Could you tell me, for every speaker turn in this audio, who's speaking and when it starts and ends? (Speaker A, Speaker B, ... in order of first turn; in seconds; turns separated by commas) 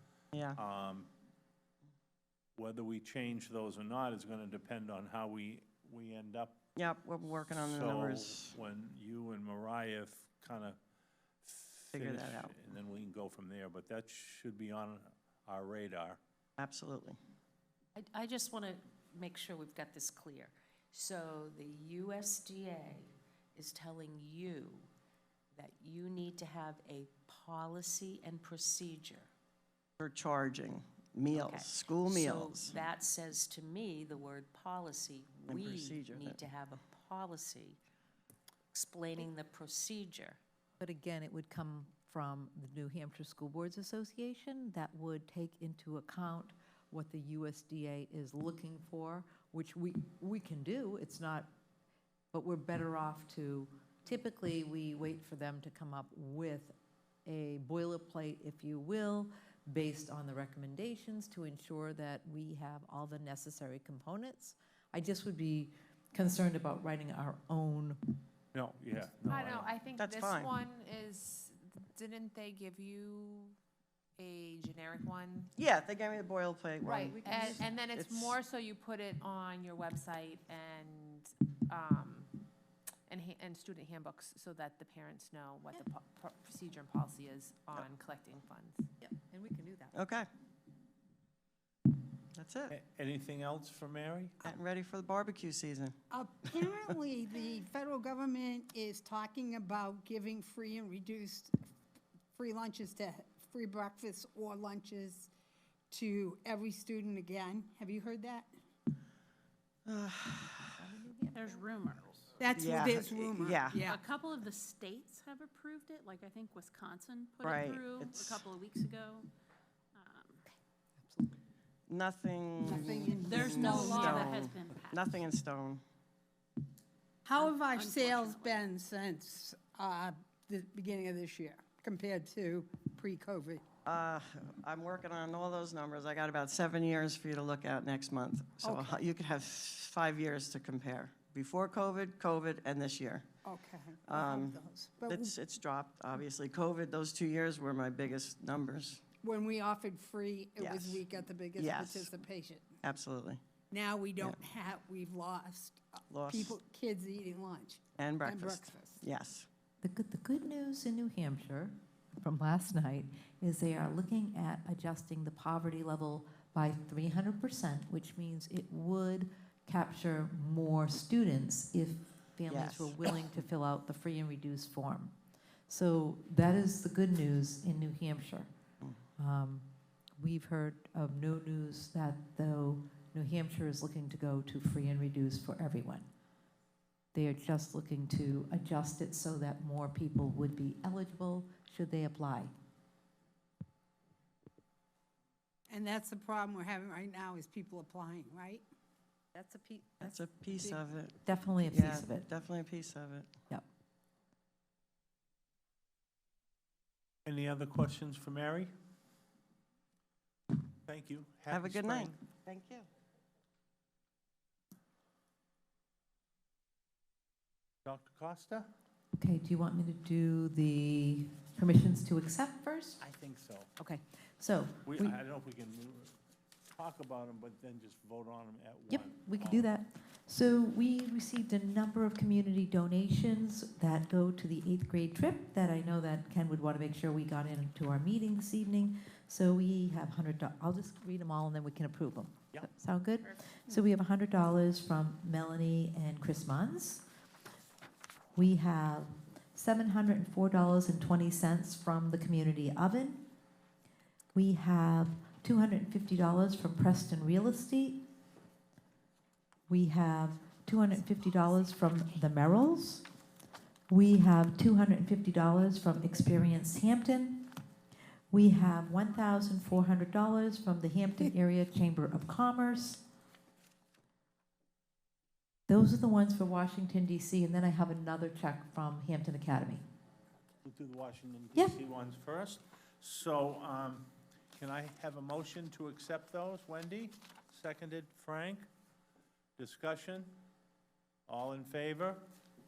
Speaker A: 0.3-0.6, Speaker B: 0.6-1.1, Speaker B: 2.6-6.6, Speaker A: 6.8-8.6, Speaker B: 7.5-10.8, Speaker B: 11.4-16.2, Speaker A: 11.9-12.6, Speaker A: 16.6-17.2, Speaker C: 18.0-24.9, Speaker C: 25.6-29.3, Speaker A: 30.0-32.8, Speaker C: 31.3-37.8, Speaker A: 35.5-36.4, Speaker C: 38.7-40.4, Speaker D: 40.8-51.5, Speaker D: 52.3-56.8, Speaker D: 57.3-68.1, Speaker B: 68.5-69.8, Speaker E: 69.3-73.6, Speaker A: 70.0-70.5, Speaker E: 74.2-75.5, Speaker A: 75.6-78.4, Speaker E: 76.8-82.4, Speaker D: 77.2-77.7, Speaker E: 83.1-88.8, Speaker D: 89.0-90.0, Speaker A: 89.9-90.3, Speaker A: 92.3-92.8, Speaker B: 92.7-94.4, Speaker A: 94.4-96.0, Speaker F: 96.1-101.6, Speaker F: 102.3-105.3, Speaker F: 105.9-108.5, Speaker A: 109.9-110.7, Speaker D: 110.8-111.7, Speaker G: 111.3-112.2, Speaker F: 112.4-114.0, Speaker A: 112.6-113.9, Speaker G: 113.8-119.3, Speaker A: 117.4-118.4, Speaker G: 120.0-120.4, Speaker D: 121.0-121.3, Speaker A: 121.9-125.8, Speaker F: 122.6-124.1, Speaker G: 123.2-125.2, Speaker F: 127.2-133.7, Speaker G: 127.4-128.7, Speaker A: 133.8-143.3, Speaker F: 138.6-139.0, Speaker F: 143.4-145.3, Speaker A: 144.1-149.0, Speaker F: 149.2-152.8, Speaker A: 150.6-151.0, Speaker A: 151.6-152.1, Speaker A: 152.8-153.4, Speaker F: 153.7-159.0, Speaker A: 156.1-156.6, Speaker A: 158.0-159.5, Speaker D: 159.8-175.1, Speaker A: 172.5-173.1, Speaker D: 175.7-178.5, Speaker D: 179.2-179.7, Speaker D: 180.2-186.1, Speaker D: 187.1-192.5, Speaker F: 195.7-198.7, Speaker D: 199.3-200.2, Speaker A: 200.0-203.3, Speaker D: 201.2-202.3, Speaker B: 207.3-208.7, Speaker B: 210.9-212.2, Speaker A: 211.5-212.9, Speaker B: 217.8-218.7, Speaker D: 219.2-223.0, Speaker B: 223.0-223.7, Speaker D: 223.8-225.2, Speaker B: 224.9-226.2, Speaker B: 226.7-229.7, Speaker D: 228.9-247.1, Speaker D: 248.3-253.2, Speaker D: 254.3-258.0, Speaker D: 259.7-263.0, Speaker D: 263.9-267.5, Speaker D: 268.3-273.0, Speaker D: 275.7-279.8, Speaker B: 280.6-288.7, Speaker B: 289.6-290.4, Speaker B: 291.3-292.2